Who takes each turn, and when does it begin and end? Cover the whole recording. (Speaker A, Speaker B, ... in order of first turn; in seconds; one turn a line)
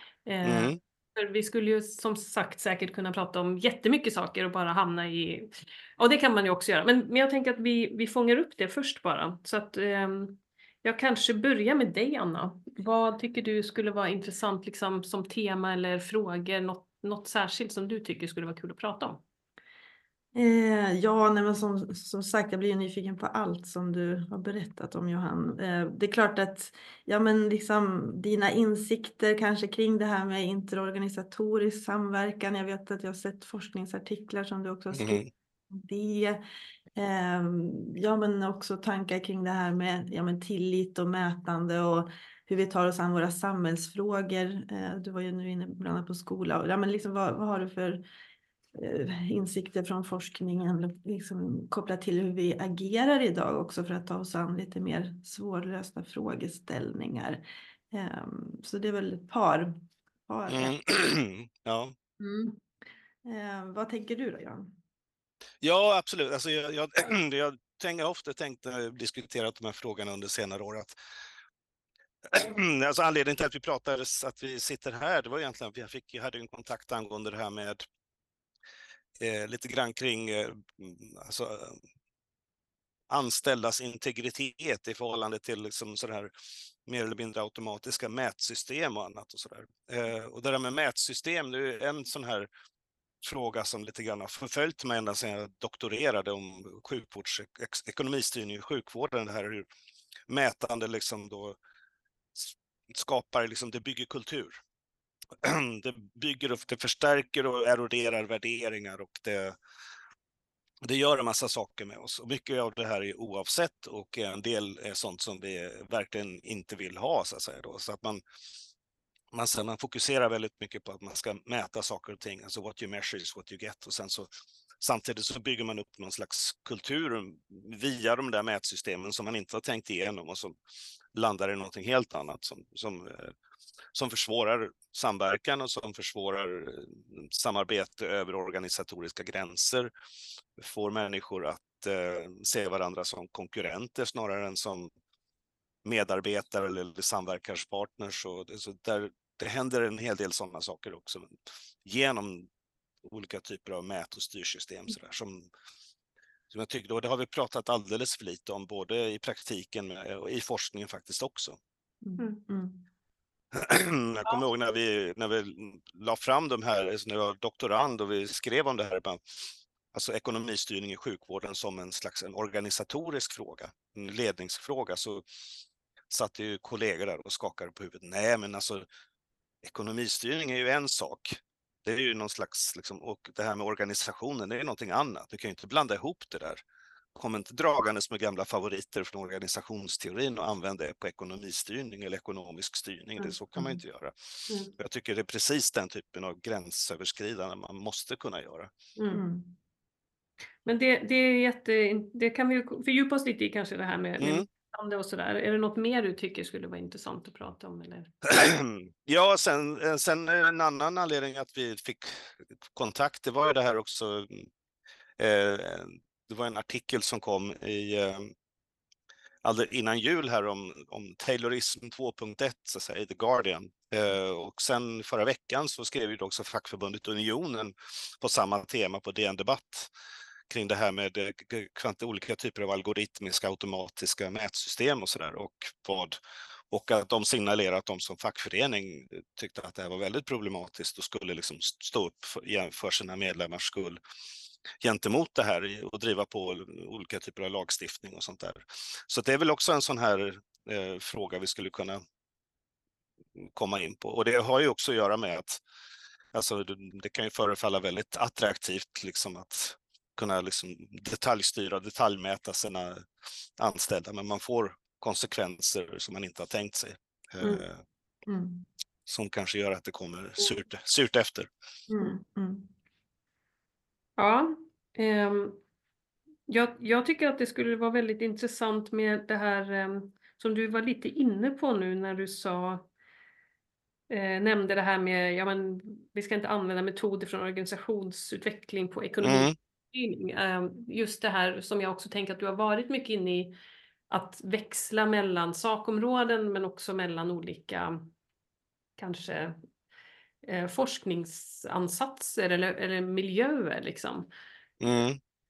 Speaker A: 0.3-19.2
Speaker B: 0.4-0.8
Speaker C: 20.4-36.4
Speaker B: 34.9-35.3
Speaker C: 37.0-48.0
Speaker C: 48.8-60.8
Speaker B: 60.5-61.9
Speaker C: 62.2-62.6
Speaker C: 63.2-64.8
Speaker B: 65.6-71.0
Speaker B: 72.3-77.8
Speaker B: 79.2-81.8
Speaker B: 83.1-86.3
Speaker B: 86.9-92.5
Speaker B: 93.2-99.7
Speaker B: 100.3-101.6
Speaker B: 102.4-104.6
Speaker B: 105.4-109.6
Speaker B: 110.8-118.2
Speaker B: 119.3-124.3
Speaker B: 124.8-130.6
Speaker B: 131.1-133.3
Speaker B: 133.9-139.9
Speaker B: 140.6-144.9
Speaker B: 145.8-152.5
Speaker B: 153.0-155.5
Speaker B: 156.5-161.6
Speaker C: 162.0-162.8
Speaker B: 163.5-169.2
Speaker B: 169.9-175.2
Speaker B: 176.1-178.8
Speaker B: 179.6-186.6
Speaker B: 187.2-194.1
Speaker B: 194.8-198.7
Speaker A: 199.0-199.2
Speaker C: 199.1-199.6
Speaker A: 200.7-208.1
Speaker B: 204.2-204.5
Speaker B: 208.2-212.2
Speaker B: 212.7-214.5
Speaker B: 215.2-218.3
Speaker B: 219.4-229.9
Speaker B: 230.5-236.2
Speaker B: 236.7-244.0
Speaker B: 244.8-252.0
Speaker B: 253.4-255.6
Speaker B: 256.3-263.1
Speaker B: 263.6-267.8
Speaker C: 268.3-268.6
Speaker B: 269.1-271.5
Speaker C: 271.9-272.7
Speaker A: 274.2-275.6
Speaker A: 276.5-282.9
Speaker A: 284.1-293.6
Speaker B: 289.2-289.5
Speaker A: 294.1-298.1
Speaker A: 299.0-299.6
Speaker A: 300.4-304.3
Speaker B: 304.8-305.2